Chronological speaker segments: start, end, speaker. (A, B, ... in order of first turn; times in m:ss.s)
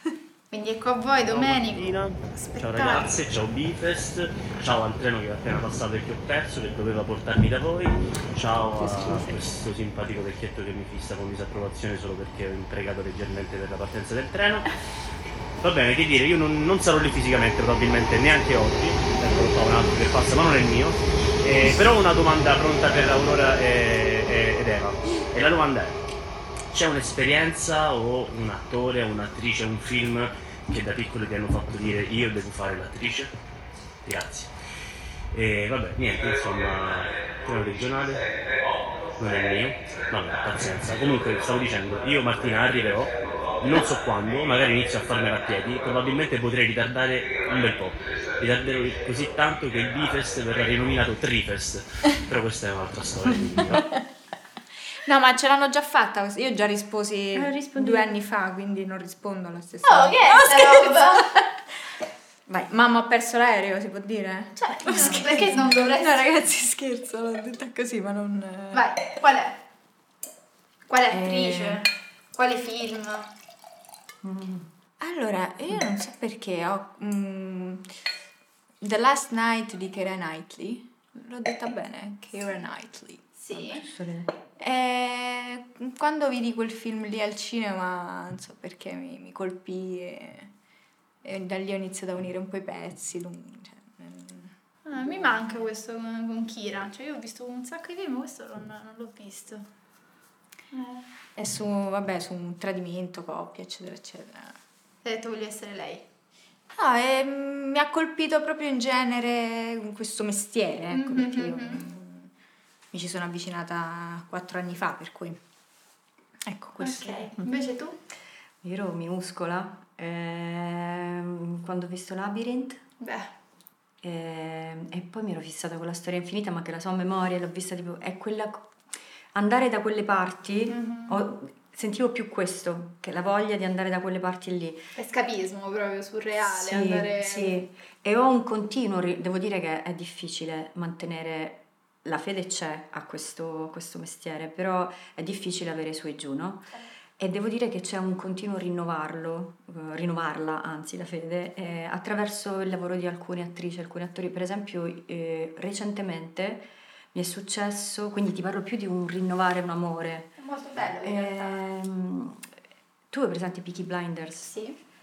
0:00.5-0:03.1 A
0:01.2-0:14.8 B
0:08.8-0:09.4 C
0:15.6-0:26.0 B
0:26.7-0:33.3 B
0:34.0-0:34.5 B
0:35.3-0:38.2 B
0:39.2-0:54.0 B
0:55.1-1:01.5 C
0:57.3-0:58.2 D
0:59.8-1:01.3 A
1:02.5-1:08.9 C
1:04.6-1:06.3 A
1:05.0-1:05.3 D
1:08.7-1:09.6 A
1:10.9-1:13.3 A
1:11.2-1:11.8 D
1:14.2-1:14.7 D
1:15.0-1:17.9 C
1:18.8-1:23.3 C
1:23.4-1:23.9 A
1:23.5-1:24.3 D
1:24.6-1:30.5 C
1:31.2-1:34.5 C
1:34.9-1:39.7 A
1:40.7-1:41.0 A
1:41.4-1:44.6 C
1:45.0-1:46.0 A
1:46.8-1:52.3 C
1:50.9-1:51.8 A
1:52.9-1:55.4 C
1:56.4-1:57.4 C
1:56.8-1:58.0 A
1:58.6-2:02.8 D
2:03.0-2:03.3 A
2:04.0-2:08.7 D
2:09.4-2:14.9 D
2:10.7-2:11.2 A
2:15.0-2:17.6 A
2:16.4-2:40.4 D
2:40.4-2:41.6 A
2:41.0-2:42.5 D
2:43.1-2:44.6 D
2:44.5-2:44.8 A